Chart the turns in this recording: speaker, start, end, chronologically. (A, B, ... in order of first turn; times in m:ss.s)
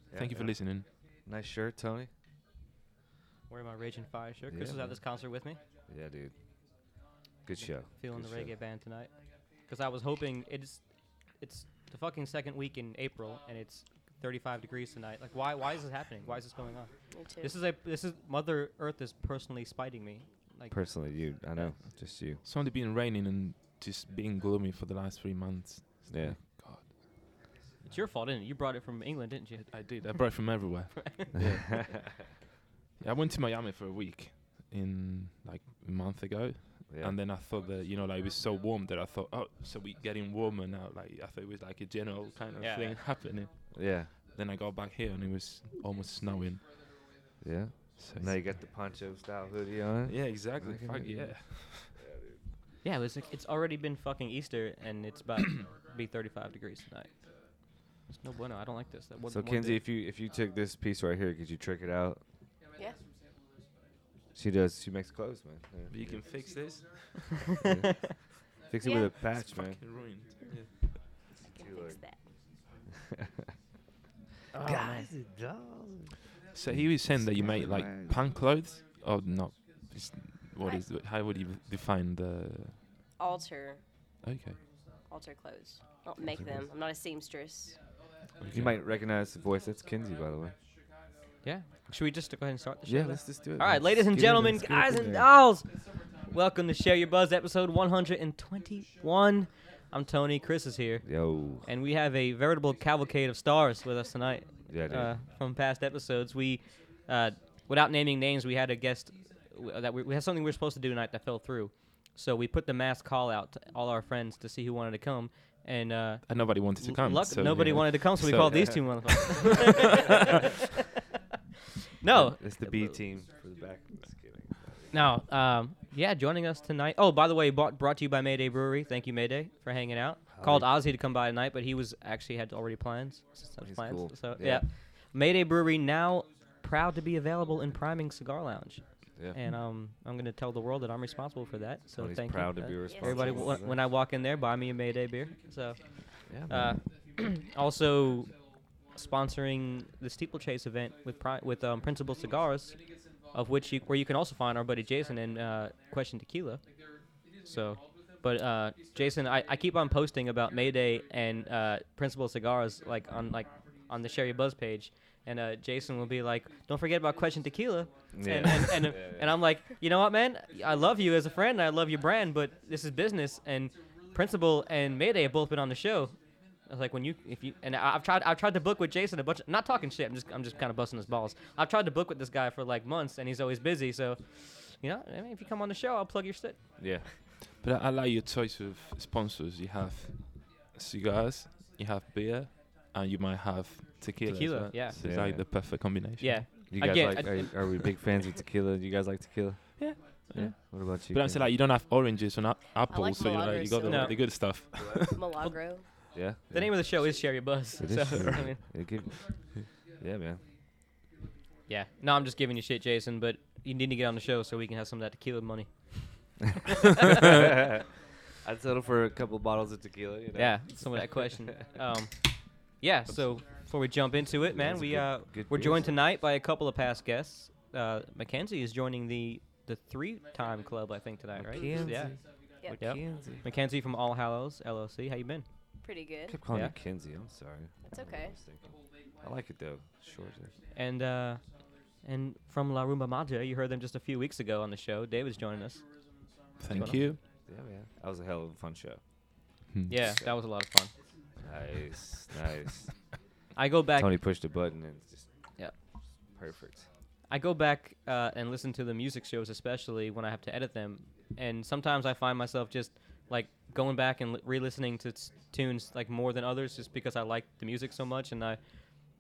0:00.1-0:00.7 A
0:00.1-0:00.9 B
0:01.2-0:02.1 A
0:03.5-0:05.6 C
0:04.5-0:05.0 A
0:05.9-0:06.3 A
0:07.4-0:08.5 A
0:07.9-0:20.8 C
0:17.1-0:17.6 D
0:20.7-0:22.4 A
0:22.4-0:26.9 B
0:26.1-0:26.4 A
0:27.8-0:30.4 C
0:29.7-0:31.9 B
0:31.0-0:31.6 C
0:31.4-0:32.0 A
0:33.0-0:47.3 B
0:36.9-0:37.2 A
0:42.6-0:43.0 C
0:43.7-0:44.1 A
0:47.4-0:52.4 A
0:48.0-0:48.6 B
0:50.0-0:51.9 B
0:52.8-0:57.1 C
0:57.6-0:59.8 C
0:59.3-1:02.2 A
1:04.4-1:06.3 A
1:05.9-1:07.5 B
1:07.6-1:09.8 A
1:07.8-1:08.1 C
1:08.8-1:09.2 D
1:09.1-1:10.8 B
1:11.5-1:12.2 D
1:11.6-1:12.0 A
1:13.0-1:13.3 A
1:14.5-1:15.1 C
1:14.6-1:16.2 A
1:16.5-1:22.8 B
1:16.7-1:18.2 A
1:23.2-1:23.8 D
1:24.2-1:24.7 B
1:25.1-1:27.8 D
1:28.4-1:28.8 B
1:28.5-1:30.6 A
1:31.4-2:00.5 C
1:32.9-1:35.3 A
1:41.0-1:41.7 A
1:44.7-1:45.2 A
1:56.3-1:59.8 B
1:58.4-1:58.8 A
2:02.0-2:03.0 C
2:02.1-2:05.0 A
2:04.9-2:28.4 C
2:10.3-2:10.7 A
2:13.6-2:14.7 A
2:22.0-2:23.8 A
2:22.8-2:23.5 D
2:26.3-2:26.8 A
2:28.9-2:36.6 C
2:37.4-2:56.2 C
2:48.1-2:49.4 A
2:56.7-3:06.6 C
3:06.8-3:07.1 A
3:07.6-3:16.5 B
3:14.3-3:15.0 C
3:14.9-3:15.4 A
3:16.2-3:17.9 C
3:16.7-3:21.5 A
3:19.8-3:25.2 B
3:22.9-3:24.4 D
3:23.8-3:24.2 C
3:24.8-3:25.1 A
3:25.1-3:25.9 D
3:26.1-3:27.0 A
3:26.5-3:28.6 C
3:27.8-3:30.4 A
3:31.7-3:37.4 C
3:37.2-3:41.0 A
3:40.4-3:55.5 C
3:44.5-3:46.0 A
3:51.4-3:53.4 A
3:55.8-3:56.4 D
3:56.3-4:00.5 A
3:57.9-3:58.4 D
4:00.7-4:05.9 C
4:06.6-4:07.2 B
4:06.7-4:07.1 C
4:07.5-4:09.0 A
4:09.9-4:10.9 C
4:10.0-4:10.4 A
4:11.4-4:13.1 A
4:13.6-4:14.2 C
4:14.0-4:15.3 A
4:16.3-4:16.9 A
4:17.3-4:28.6 C